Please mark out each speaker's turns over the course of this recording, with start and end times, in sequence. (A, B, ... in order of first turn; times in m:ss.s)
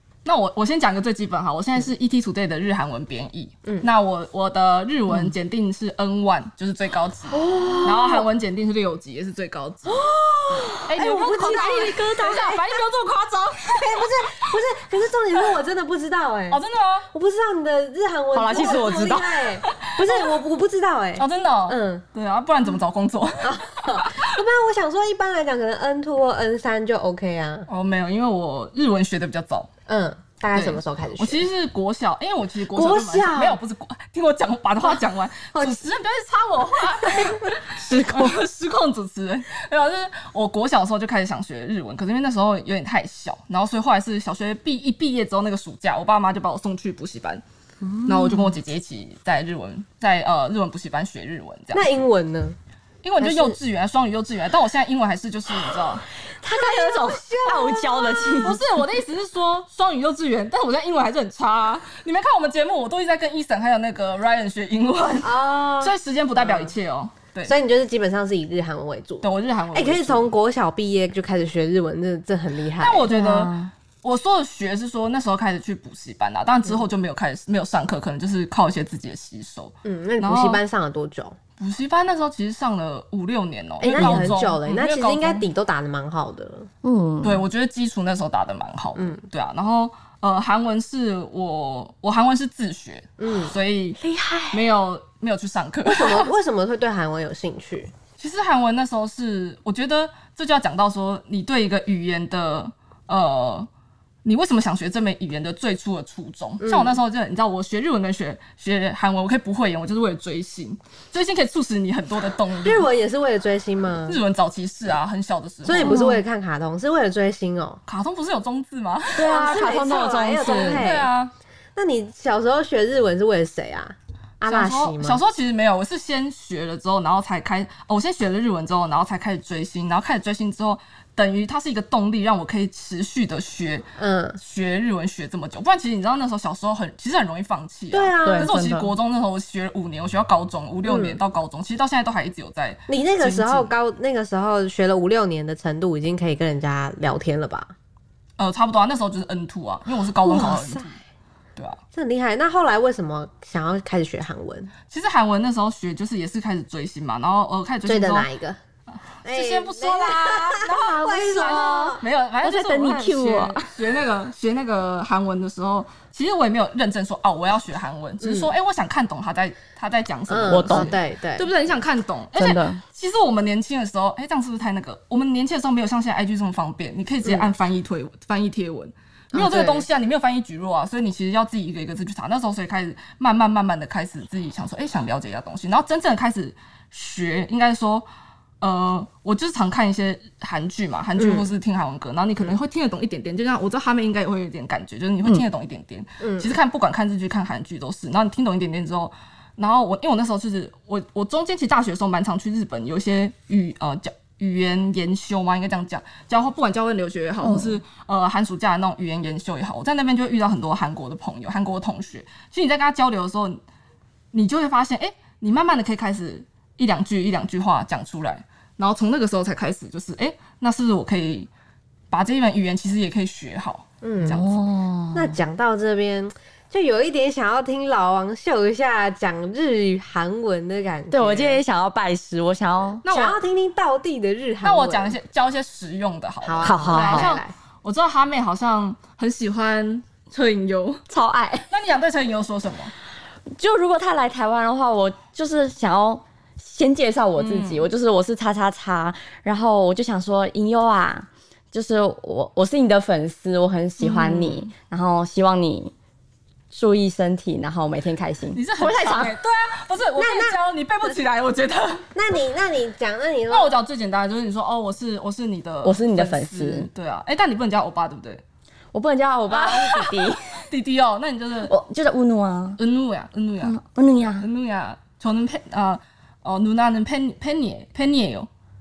0:00.2-0:10.0 A
0:07.3-0:08.3 B
0:09.9-0:12.8 B
0:10.9-0:14.4 A
0:13.6-0:16.6 B
0:16.5-0:17.1 A
0:17.1-0:22.0 B
0:18.3-0:19.5 C
0:19.6-0:20.3 A
0:21.2-0:24.4 A
0:23.4-0:27.7 B
0:27.7-0:29.7 A
0:29.9-0:31.4 B
0:30.5-0:47.4 A
0:32.7-0:33.6 B
0:35.5-0:35.8 B
0:37.0-0:37.5 B
0:37.8-0:38.4 C
0:48.1-0:51.9 A
0:51.7-0:52.6 B
0:53.0-0:56.1 A
0:53.2-0:53.6 B
0:56.4-0:58.5 B
0:56.4-0:58.6 C
0:58.4-1:07.5 A
1:05.2-1:06.8 B
1:07.5-1:13.1 B
1:09.2-1:10.3 A
1:12.8-1:20.6 A
1:13.1-1:13.7 C
1:19.8-1:21.4 B
1:21.6-1:25.5 A
1:23.8-1:26.7 B
1:23.9-1:24.3 C
1:26.8-1:27.4 C
1:27.2-1:34.0 A
1:33.2-1:33.6 B
1:34.0-1:34.6 C
1:34.5-1:36.3 A
1:35.9-1:37.9 B
1:38.2-1:43.7 A
1:44.2-1:52.9 A
1:46.6-1:47.0 B
1:52.6-1:54.2 B
1:54.1-1:56.0 A
1:55.6-1:57.8 B
1:55.8-1:56.2 C
1:57.9-2:01.3 A
1:59.2-2:00.9 C
1:59.2-2:01.1 B
2:01.8-2:05.2 B
2:04.4-2:23.7 A
2:14.0-2:14.4 B
2:17.9-2:18.9 B
2:18.2-2:18.8 C
2:20.8-2:21.2 B
2:22.9-2:27.7 B
2:28.4-2:31.0 A
2:30.2-2:30.8 B
2:31.9-2:34.7 B
2:34.9-2:38.3 A
2:37.9-2:38.6 B
2:39.2-2:42.0 B
2:39.2-3:08.1 A
2:42.4-2:43.7 C
2:48.2-2:48.5 B
2:50.3-2:51.5 B
2:50.5-2:50.9 C
2:52.4-2:52.8 C
2:59.3-2:59.9 B
3:08.6-3:33.6 A
3:11.2-3:11.5 B
3:16.2-3:16.5 B
3:27.4-3:27.8 C
3:34.3-3:41.5 A
3:42.1-3:44.6 A
3:44.0-3:44.4 B
3:44.3-3:45.4 C
3:45.1-3:51.6 B
3:51.1-3:53.0 C
3:53.0-3:53.4 A
3:53.0-3:55.2 B
3:54.6-4:01.0 A
3:56.4-3:57.5 B
3:56.6-3:57.4 C
4:01.1-4:01.7 C
4:01.7-4:02.9 A
4:03.6-4:15.9 C
4:07.4-4:07.9 A
4:14.0-4:14.6 A
4:16.7-4:19.3 C
4:18.5-4:22.1 A
4:20.2-4:20.6 B
4:22.1-4:23.7 B
4:23.5-4:28.4 A
4:25.8-4:26.9 C
4:28.9-4:30.6 C
4:29.5-4:31.7 A
4:31.7-4:32.8 C
4:32.8-4:33.8 A
4:33.6-4:34.5 C
4:34.4-4:38.5 A